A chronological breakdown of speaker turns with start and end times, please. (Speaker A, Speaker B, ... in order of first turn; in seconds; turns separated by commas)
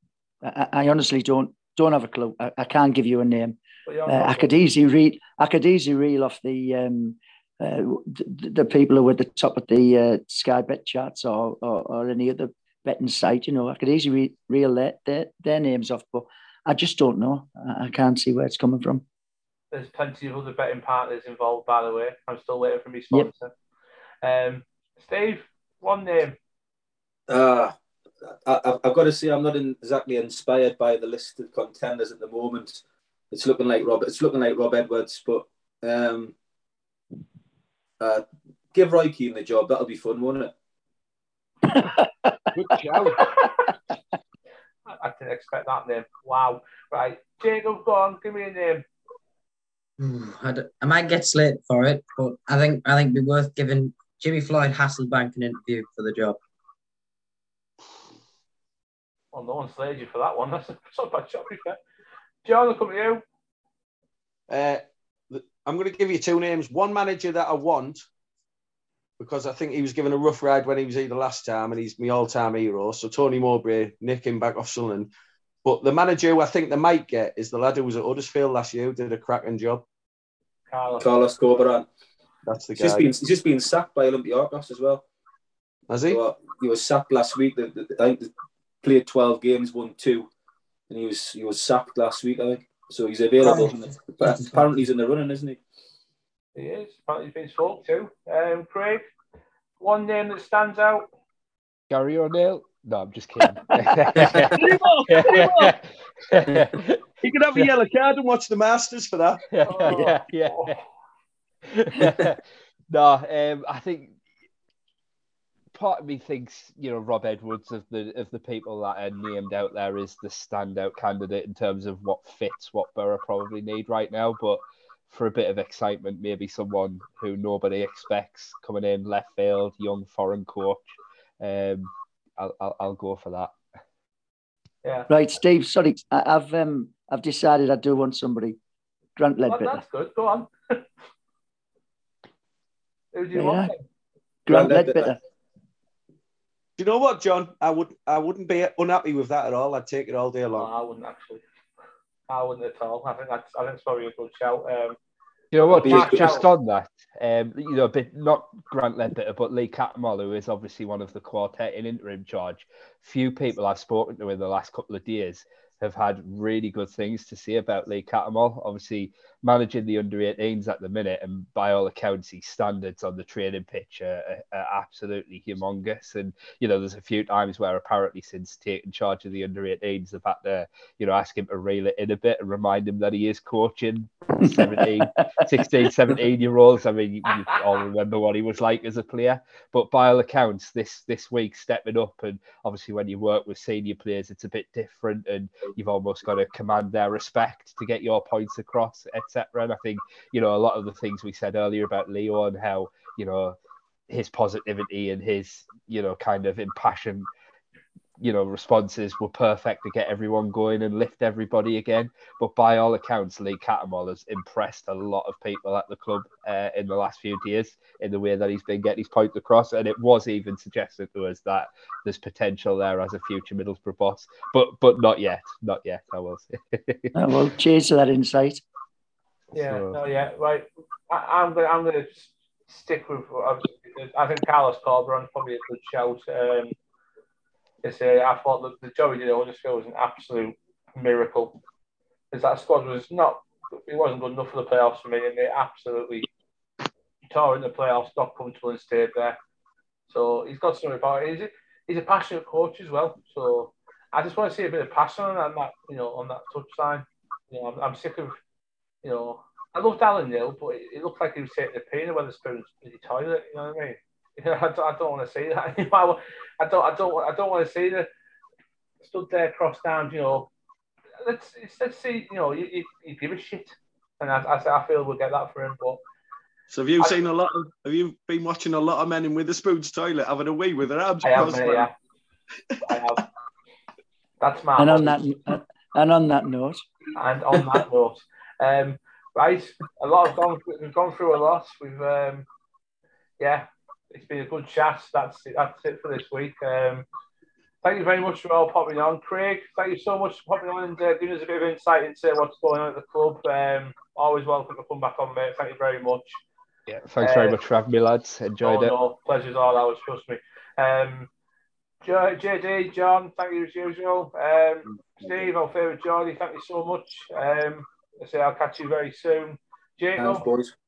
Speaker A: 0.4-19.1, Speaker B: 3.9-4.6, Speaker B: 19.7-23.5, Speaker B: 24.2-26.4, Speaker C: 27.3-27.7, Speaker C: 28.4-36.4, Speaker C: 38.0-40.5, Speaker A: 41.6-42.5, Speaker D: 42.5-43.3, Speaker B: 44.9-48.9, Speaker E: 50.0-56.4, Speaker B: 59.3-61.8, Speaker B: 62.4-63.2, Speaker D: 64.5-68.0, Speaker D: 69.2-75.1, Speaker D: 75.6-79.8, Speaker B: 80.7-81.1, Speaker C: 81.0-81.9, Speaker D: 82.5-83.1, Speaker C: 82.8-85.0, Speaker D: 85.9-86.2, Speaker C: 86.1-88.3, Speaker C: 88.8-90.3, Speaker C: 90.9-95.6, Speaker E: 93.4-94.6, Speaker B: 96.6-99.0, Speaker B: 99.8-101.1, Speaker F: 101.9-107.7, Speaker D: 104.5-105.7, Speaker D: 107.2-109.9, Speaker F: 109.5-110.7, Speaker B: 109.6-110.8, Speaker F: 111.7-114.2, Speaker F: 115.7-133.6, Speaker B: 134.8-135.1, Speaker A: 135.1-138.6, Speaker A: 139.2-139.8, Speaker B: 139.5-140.8, Speaker B: 143.1-143.8, Speaker A: 143.3-143.7, Speaker A: 144.4-145.2, Speaker C: 144.5-145.2, Speaker D: 146.8-150.7, Speaker B: 150.6-151.4, Speaker B: 152.3-155.0, Speaker F: 155.5-203.6, Speaker B: 155.6-156.5, Speaker C: 155.8-156.4, Speaker A: 184.4-185.1, Speaker F: 204.1-207.3, Speaker F: 208.2-227.4, Speaker A: 227.1-228.6, Speaker B: 229.5-236.7, Speaker F: 229.6-230.0, Speaker B: 237.8-241.6, Speaker B: 242.3-246.3, Speaker B: 247.3-249.4, Speaker B: 250.1-258.4, Speaker B: 259.0-268.1, Speaker B: 269.0-270.5, Speaker B: 271.2-276.0, Speaker D: 276.7-281.9, Speaker B: 281.2-281.9, Speaker B: 282.8-283.2, Speaker B: 284.4-285.2, Speaker A: 284.8-286.8, Speaker B: 287.1-292.5, Speaker B: 293.4-297.1, Speaker B: 297.8-306.4, Speaker F: 306.9-308.9, Speaker B: 307.2-307.6, Speaker B: 308.6-311.3, Speaker B: 312.0-320.4, Speaker C: 320.2-320.7